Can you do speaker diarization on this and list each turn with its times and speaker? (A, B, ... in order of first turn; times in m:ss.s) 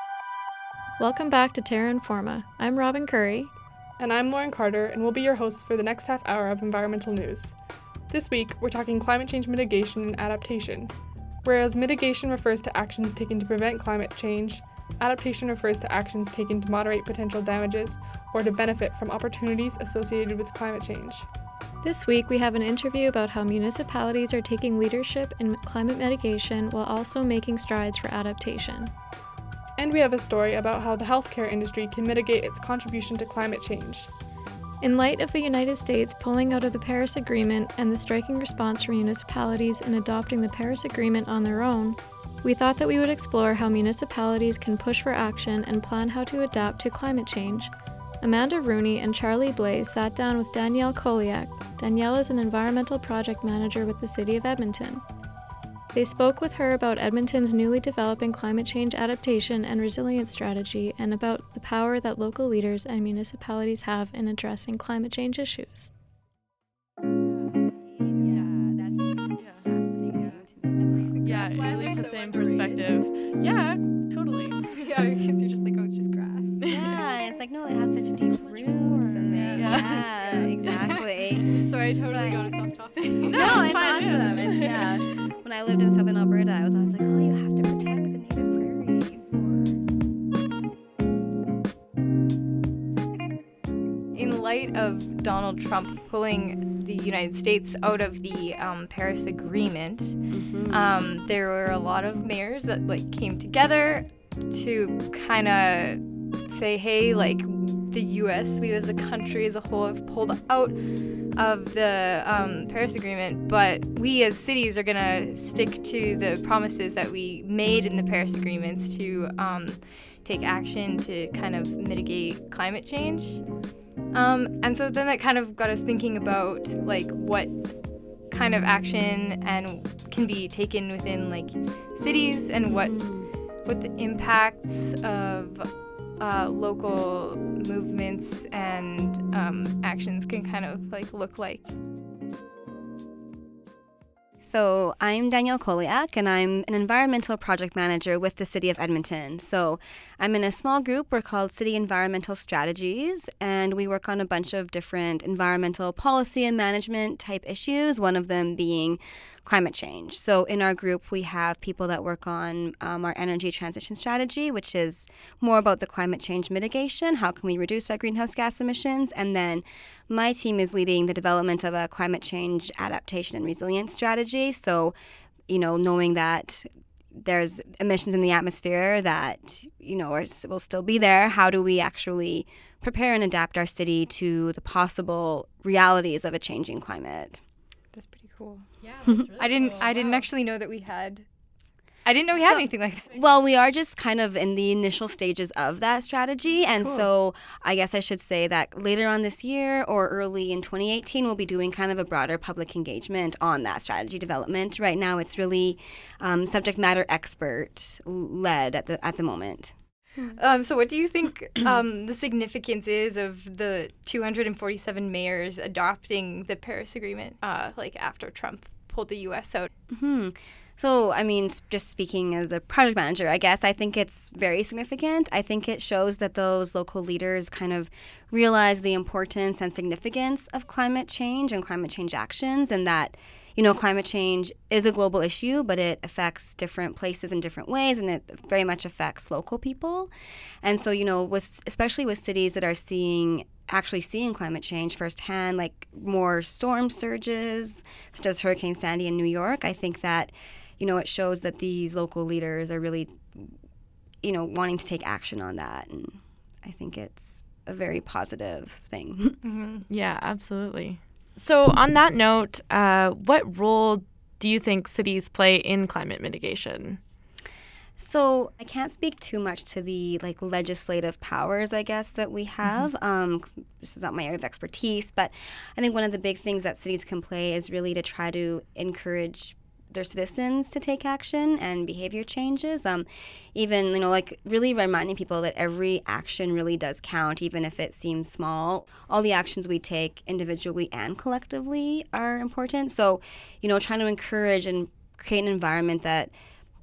0:01.0-0:03.5 A
0:04.0-0:07.6 B
0:08.1-0:21.2 B
0:21.8-0:28.9 A
0:29.8-0:34.1 B
0:34.8-0:55.0 A
0:55.9-1:05.9 A
1:07.6-1:11.2 C
1:11.1-1:12.9 D
1:11.2-1:14.6 E
1:14.6-1:16.7 D
1:16.6-1:16.9 E
1:16.7-1:22.5 C
1:18.4-1:20.1 E
1:19.2-1:23.9 D
1:23.2-1:25.0 E
1:23.2-1:29.8 C
1:34.1-1:40.2 D
1:40.3-1:41.0 C
1:40.7-2:03.4 D
2:04.1-2:07.6 D
2:08.3-2:13.1 D
2:12.6-2:13.3 C
2:13.6-2:21.7 D
2:24.4-2:54.9 C
2:55.5-3:07.4 C
3:07.9-3:08.7 D
3:09.2-3:11.2 D
3:12.0-3:13.2 D
3:12.3-3:30.4 C
3:30.3-3:39.7 D
3:39.9-4:13.5 C
4:14.2-4:19.4 C
4:19.4-4:19.8 D
4:19.9-4:27.0 E
4:28.0-4:56.3 C